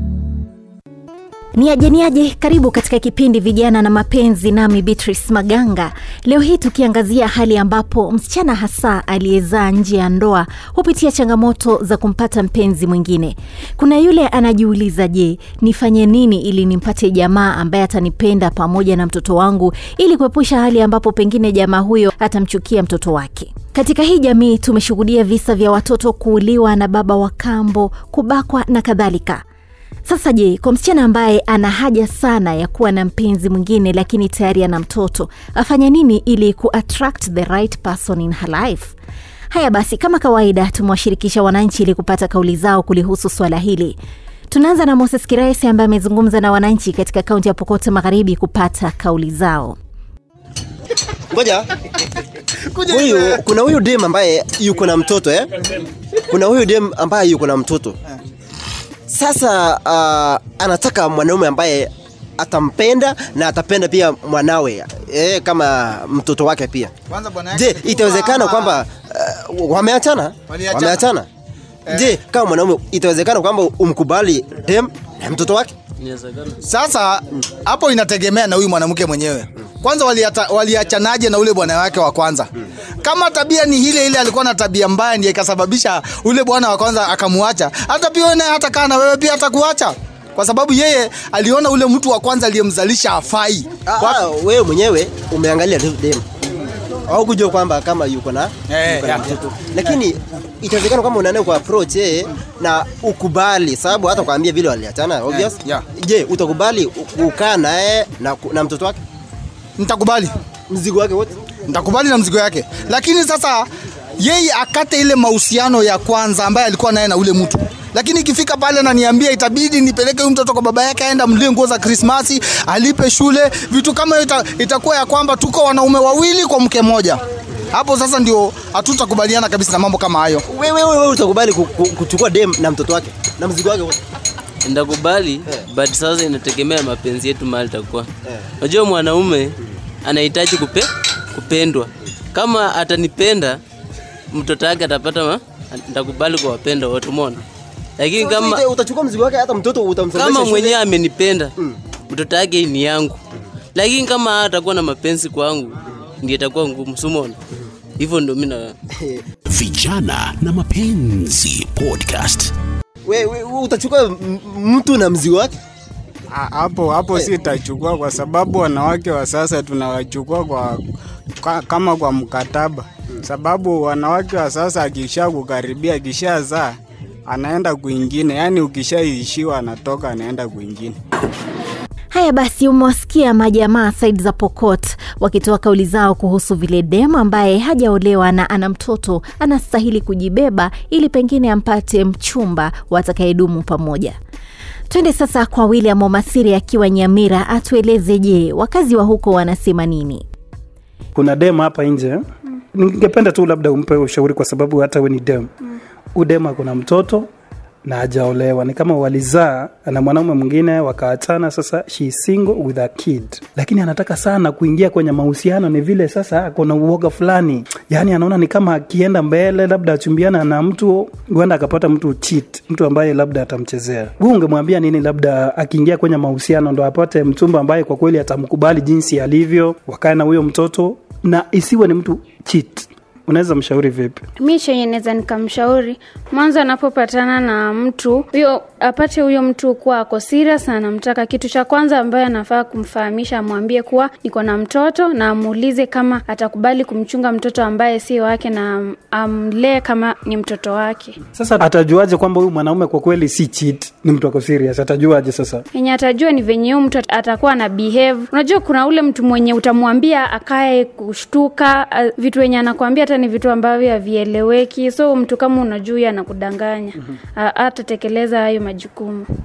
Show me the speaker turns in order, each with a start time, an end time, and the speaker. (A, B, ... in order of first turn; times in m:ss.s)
0:01.6-0:29.4 A
0:30.1-0:39.0 A
0:39.5-0:44.0 A
0:44.5-0:49.8 A
0:51.3-0:51.7 B
0:52.7-0:53.4 C
0:52.9-0:55.5 B
0:56.2-0:58.0 B
0:59.1-1:07.0 B
1:07.1-1:08.6 C
1:07.5-1:11.3 B
1:10.5-1:11.0 C
1:11.9-1:15.7 B
1:16.0-1:16.5 D
1:16.6-1:22.5 C
1:23.0-1:34.2 C
1:33.8-1:36.3 B
1:37.1-1:49.0 B
1:38.7-1:39.1 C
1:45.3-1:45.9 C
1:49.8-1:50.4 C
1:50.7-1:51.4 B
1:51.7-1:53.6 C
1:54.2-2:07.2 C
2:07.7-2:10.4 C
2:10.5-2:14.0 B
2:14.6-2:18.1 D
2:18.6-2:19.5 D
2:20.0-2:23.6 D
2:24.3-2:27.4 D
2:28.0-2:28.7 D
2:28.1-2:30.8 B
2:30.1-2:31.5 D
2:32.1-2:33.2 D
2:33.8-2:37.4 D
2:38.0-2:38.7 D
2:39.0-2:39.2 B
2:39.5-2:42.5 E
2:43.0-2:45.6 B
2:46.3-2:50.8 F
2:51.4-3:01.0 F
3:02.1-3:14.2 A
3:14.9-3:20.2 A
3:21.2-3:22.2 G
3:22.7-3:25.5 G
3:26.2-3:27.3 G
3:27.8-3:54.2 G
3:54.4-4:11.2 H
4:11.4-4:15.6 G
4:15.7-4:29.2 H